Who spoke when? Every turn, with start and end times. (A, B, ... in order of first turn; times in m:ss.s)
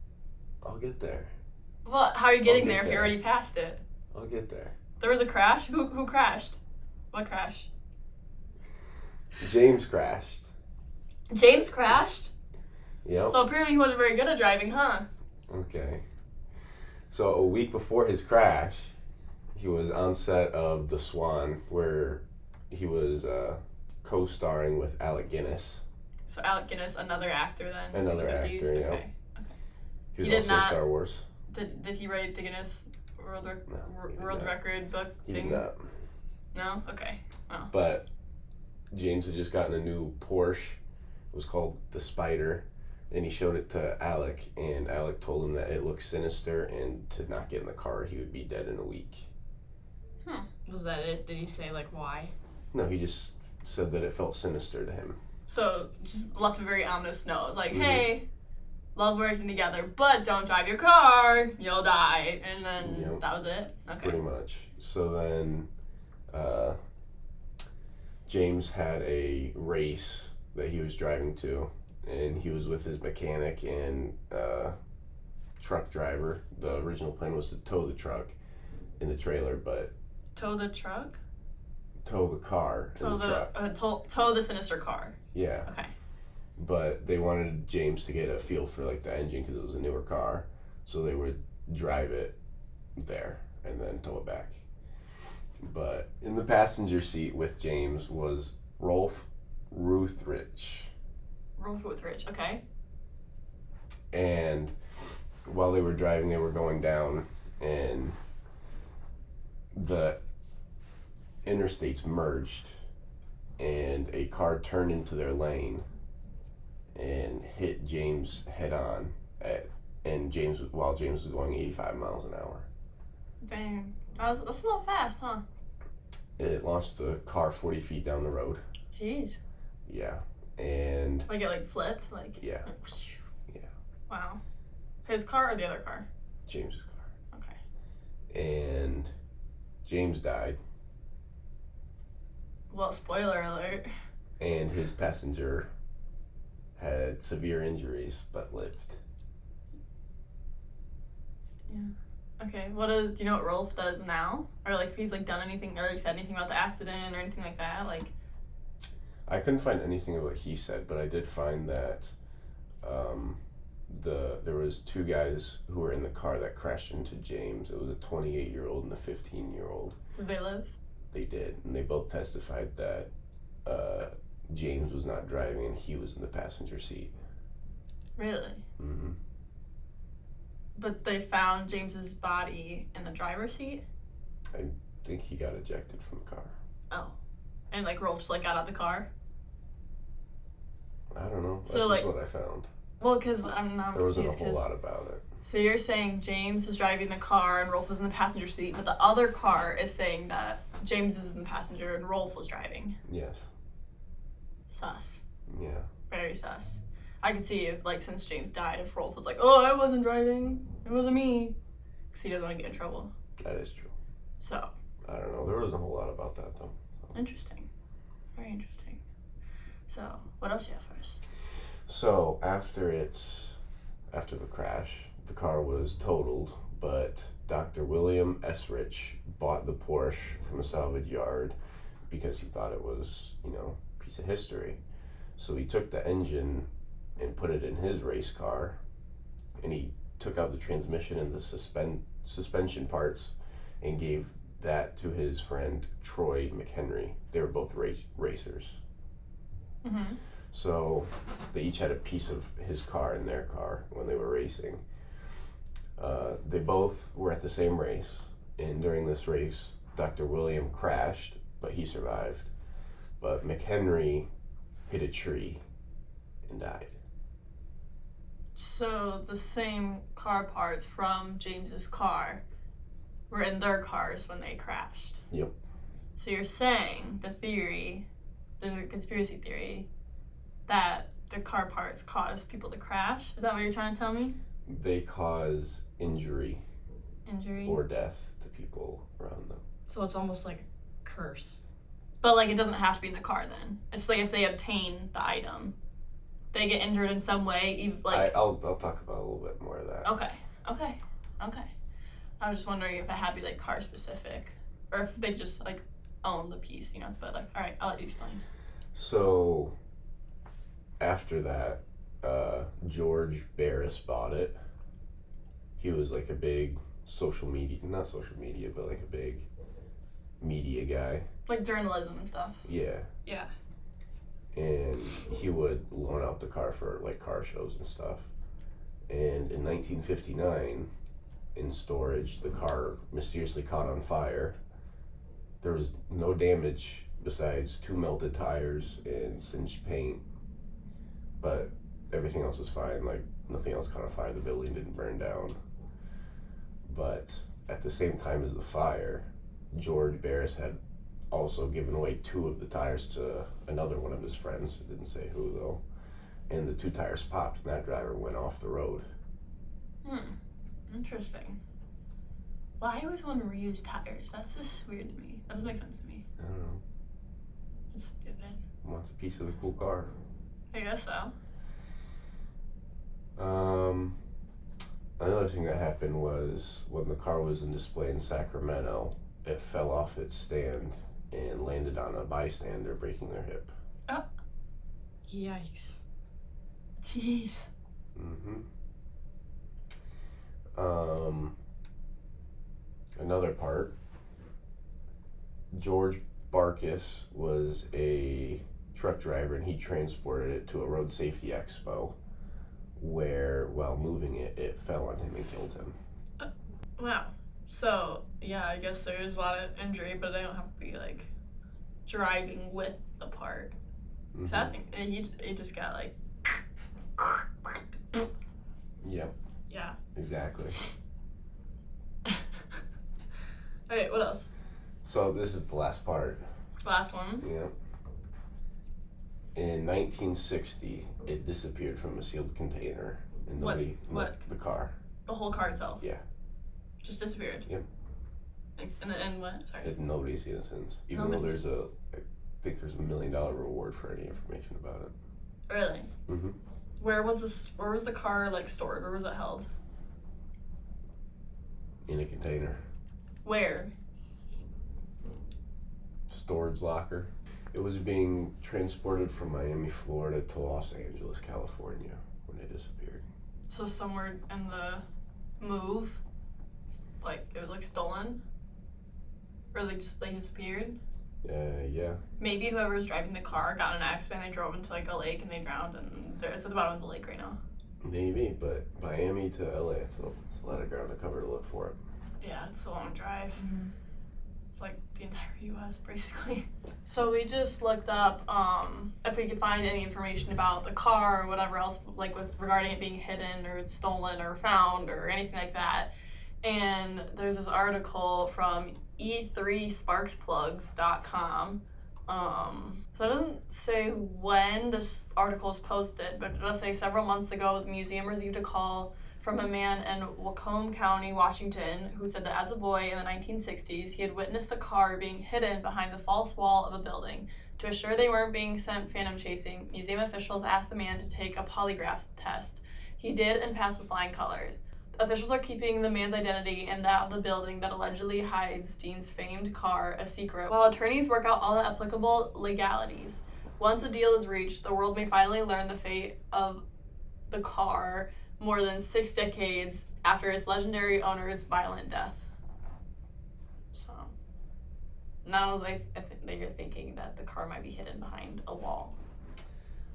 0:00.6-0:01.3 A
0:01.8-0:03.8 B
0:02.4-0:03.2 A
0:04.1-0:04.7 A
0:05.0-0:06.6 B
0:07.1-0:07.7 B
0:09.4-0:10.5 A
0:11.3-0:12.3 B
0:13.0-0:13.4 A
0:13.3-0:15.1 B
0:15.5-0:16.0 A
0:17.1-0:18.9 A
0:19.5-0:25.8 A
0:26.3-0:29.5 B
0:27.9-0:29.0 A
0:30.1-0:31.2 A
0:30.2-0:30.8 B
0:31.5-0:35.6 B
0:33.7-0:34.5 A
0:35.2-0:35.9 A
0:36.5-0:37.7 B
0:37.7-0:38.0 A
0:38.9-0:40.8 A
0:41.3-0:49.3 A
0:50.6-0:52.3 C
0:52.7-0:55.2 A
0:55.5-0:58.2 B
0:57.7-0:58.1 A
0:58.9-1:04.2 B
1:02.8-1:03.2 A
1:04.0-1:05.7 A
1:06.3-1:06.8 A
1:08.3-1:14.7 A
1:15.6-1:18.3 A
1:19.0-1:19.9 A
1:20.4-1:21.2 B
1:22.0-1:23.5 A
1:23.0-1:25.9 B
1:25.3-1:25.7 A
1:26.6-1:32.4 A
1:33.0-1:34.6 A
1:35.6-1:40.9 A
1:41.6-1:42.6 B
1:44.1-1:44.7 A
1:45.4-1:48.1 A
1:49.7-1:50.2 A
1:51.4-1:52.7 A
1:53.6-1:55.8 A
1:56.9-2:02.7 A
2:03.4-2:05.4 B
2:06.4-2:08.6 A
2:08.9-2:09.4 B
2:09.9-2:11.3 A
2:11.3-2:13.2 B
2:12.4-2:12.7 A
2:14.1-2:14.4 B
2:15.0-2:16.0 B
2:16.5-2:17.1 A
2:18.3-2:19.1 A
2:19.8-2:20.6 A
2:22.7-2:23.9 B
2:24.4-2:25.7 A
2:26.8-2:29.0 A
2:31.7-2:38.1 B
2:39.3-2:42.1 A
2:42.8-2:50.0 A
2:50.1-2:50.7 B
2:51.1-2:53.1 A
2:53.6-2:57.1 A
2:58.2-2:58.6 B
2:58.8-2:59.2 A
3:00.7-3:03.8 B
3:04.5-3:06.5 A
3:07.7-3:09.1 B
3:11.1-3:12.7 A
3:11.6-3:12.1 B
3:13.0-3:14.6 B
3:13.9-3:15.2 A
3:15.4-3:22.9 B
3:23.0-3:23.5 A
3:24.7-3:25.2 B
3:25.5-3:25.9 A
3:26.1-3:31.5 B
3:32.1-3:33.1 B
3:33.4-3:33.9 A
3:34.4-3:34.7 B
3:35.0-3:37.1 A
3:37.1-3:37.6 B
3:38.4-3:39.0 B
3:39.9-3:41.2 B
3:41.9-3:43.6 A
3:44.1-3:51.5 A
3:52.1-3:54.8 A
3:55.4-3:58.8 A
3:59.6-4:08.8 A
4:09.8-4:10.2 B
4:10.5-4:14.8 A
4:16.0-4:22.5 A
4:23.2-4:24.3 A
4:24.9-4:25.6 A
4:26.4-4:27.0 A
4:28.6-4:32.4 B
4:33.3-4:35.2 B
4:36.2-4:38.0 B
4:38.6-4:39.9 B
4:40.7-4:44.3 B
4:44.7-4:46.6 A
4:47.2-4:47.8 B
4:47.6-4:49.6 A
4:49.9-4:51.6 C
4:52.2-4:55.7 B
4:56.5-4:58.3 B
4:58.1-5:00.1 A
5:00.0-5:01.7 B
5:02.4-5:08.4 B
5:08.9-5:09.7 A
5:11.0-5:14.6 A
5:15.8-5:19.5 A
5:20.4-5:21.2 A
5:21.5-5:22.6 B
5:22.6-5:23.1 A
5:24.5-5:28.3 A
5:29.1-5:30.9 A
5:31.5-5:34.6 A
5:35.6-5:40.2 A
5:41.4-5:45.6 A
5:46.8-5:50.8 A
5:51.3-5:55.8 A
5:56.5-5:59.0 A
6:00.0-6:00.3 B
6:00.9-6:01.6 B
6:02.8-6:06.2 B
6:06.4-6:06.8 A
6:07.9-6:08.6 B
6:08.8-6:10.1 A
6:10.7-6:11.3 B
6:13.4-6:14.2 A
6:15.2-6:23.7 A
6:25.3-6:26.0 C
6:27.0-6:27.7 B
6:28.2-6:28.6 A
6:30.7-6:31.5 A
6:33.2-6:33.9 A
6:35.7-6:42.2 A
6:43.0-6:46.0 A
6:46.4-6:51.3 B
6:52.0-6:53.7 B
6:54.3-6:54.7 A
6:54.4-6:56.1 B
6:57.2-6:58.2 B
6:59.0-6:59.3 A
6:59.7-7:00.0 B
7:00.1-7:00.8 A
7:03.9-7:04.5 B
7:05.0-7:06.4 A
7:06.8-7:07.4 B
7:07.4-7:07.7 A
7:09.5-7:14.9 A
7:13.6-7:14.4 B
7:15.2-7:16.0 B
7:17.0-7:17.7 B
7:18.8-7:19.9 B
7:19.8-7:25.1 A
7:21.1-7:21.6 B
7:25.7-7:26.1 B
7:26.3-7:26.6 A
7:27.0-7:29.7 B
7:32.0-7:32.8 A
7:33.4-7:33.9 B
7:36.3-7:43.2 A
7:43.7-7:45.0 B
7:45.6-7:46.2 B
7:46.9-7:48.4 B
7:49.7-7:51.0 B
7:51.4-7:52.2 A
7:52.4-7:57.6 B
7:58.0-8:02.0 A
8:02.4-8:03.6 B
8:03.6-8:03.9 C
8:04.7-8:16.1 B
8:16.6-8:56.8 B
8:57.5-9:02.5 B
9:03.9-9:04.3 B
9:05.4-9:09.1 B